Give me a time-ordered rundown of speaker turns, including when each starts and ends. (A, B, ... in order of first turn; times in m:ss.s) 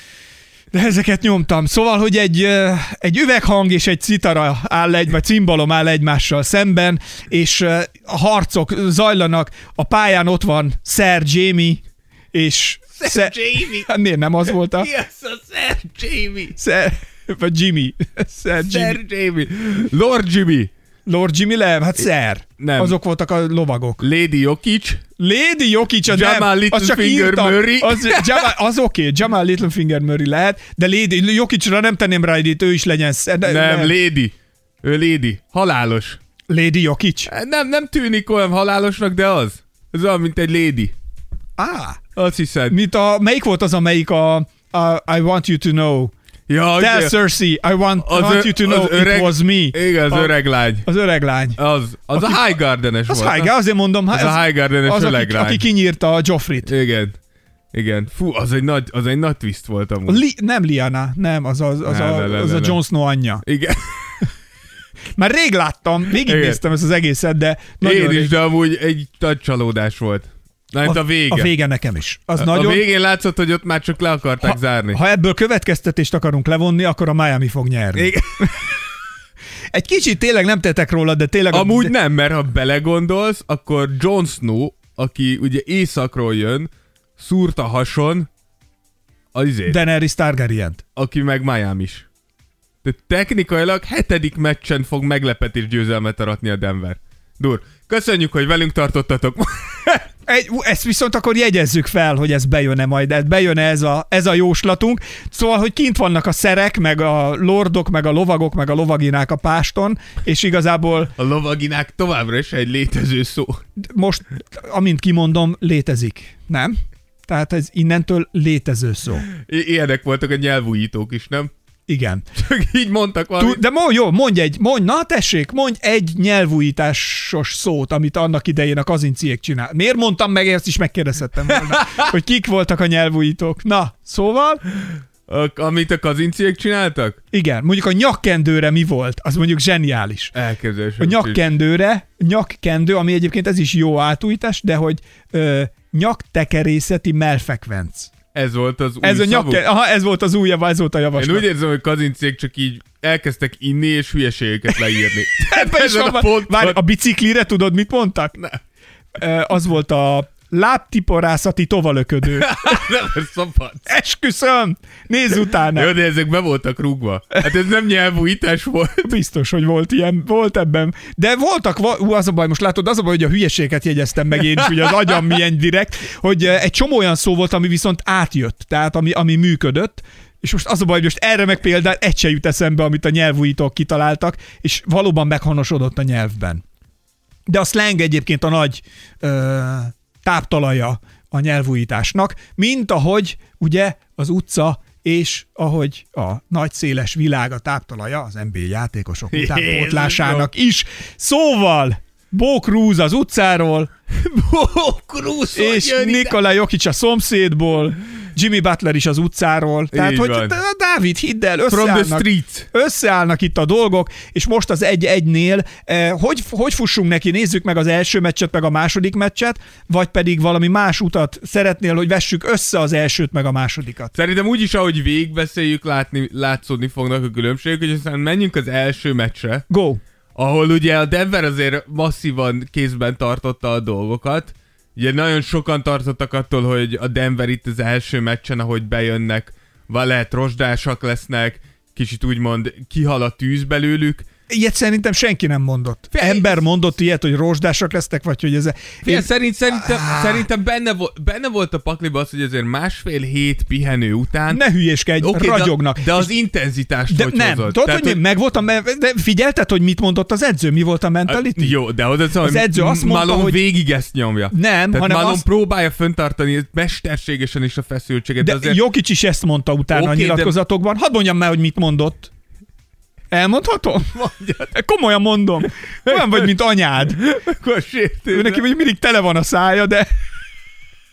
0:00.7-0:14.9 A
0:12.9-0:13.9 B
0:14.6-0:16.6 B
0:16.6-0:19.0 A
0:18.6-0:20.7 B
0:21.0-0:24.0 A
0:22.6-0:23.0 B
0:24.0-0:25.0 B
0:25.2-0:33.9 A
0:26.1-0:28.5 B
0:33.4-0:36.2 B
0:36.5-0:37.3 A
0:37.3-0:40.9 B
0:41.6-0:42.0 A
0:42.2-0:42.8 B
0:42.7-0:46.1 A
0:46.5-0:47.1 B
0:46.8-0:50.3 A
0:48.0-0:50.9 B
0:50.8-0:51.6 A
0:51.6-0:53.5 B
0:52.1-0:52.5 A
0:53.1-0:56.7 A
0:54.1-0:55.6 B
0:56.6-0:57.2 B
0:57.7-1:00.2 B
1:00.1-1:03.4 A
1:01.8-1:02.8 B
1:03.4-1:04.3 B
1:05.2-1:08.3 A
1:06.2-1:06.6 B
1:07.8-1:11.5 B
1:10.8-1:12.8 A
1:12.4-1:15.0 B
1:14.4-1:18.5 A
1:17.9-1:18.6 B
1:19.7-1:21.9 A
1:21.5-1:28.3 B
1:29.3-1:29.8 B
1:29.7-1:30.8 A
1:31.0-1:32.0 B
1:32.8-1:40.1 B
1:40.3-1:51.1 A
1:51.2-1:53.6 B
1:53.8-1:59.3 A
1:59.3-2:01.5 B
2:01.9-2:02.2 A
2:02.3-2:03.6 B
2:03.4-2:14.6 A
2:11.5-2:12.1 B
2:15.3-2:17.2 B
2:17.3-2:20.3 A
2:20.3-2:21.4 B
2:21.0-2:28.1 A
2:28.3-2:29.6 B
2:29.0-2:31.5 A
2:31.2-2:36.8 B
2:35.4-2:38.4 A
2:39.2-2:42.8 A
2:42.3-2:43.9 B
2:43.9-2:45.9 A
2:45.7-2:49.1 B
2:49.0-3:06.6 A
3:07.5-3:23.9 A
3:19.3-3:20.5 B
3:24.1-3:26.4 B
3:25.6-3:44.1 A
3:29.9-3:30.6 B
3:31.7-3:32.7 B
3:44.1-3:49.6 B
3:49.7-3:50.0 A
3:50.3-4:04.2 B
4:04.5-4:10.5 A
4:06.1-4:06.6 B
4:09.0-4:14.6 B
4:14.5-4:16.3 A
4:15.2-4:18.2 B
4:17.1-4:21.8 A
4:21.3-4:28.8 B
4:22.4-4:23.6 A
4:24.5-4:25.4 A
4:28.4-4:32.3 A
4:29.9-4:30.5 B
4:33.3-4:34.1 A
4:34.1-4:34.8 B
4:34.7-4:37.2 A
4:36.0-4:36.5 B
4:37.1-4:38.6 B
4:38.3-4:40.1 A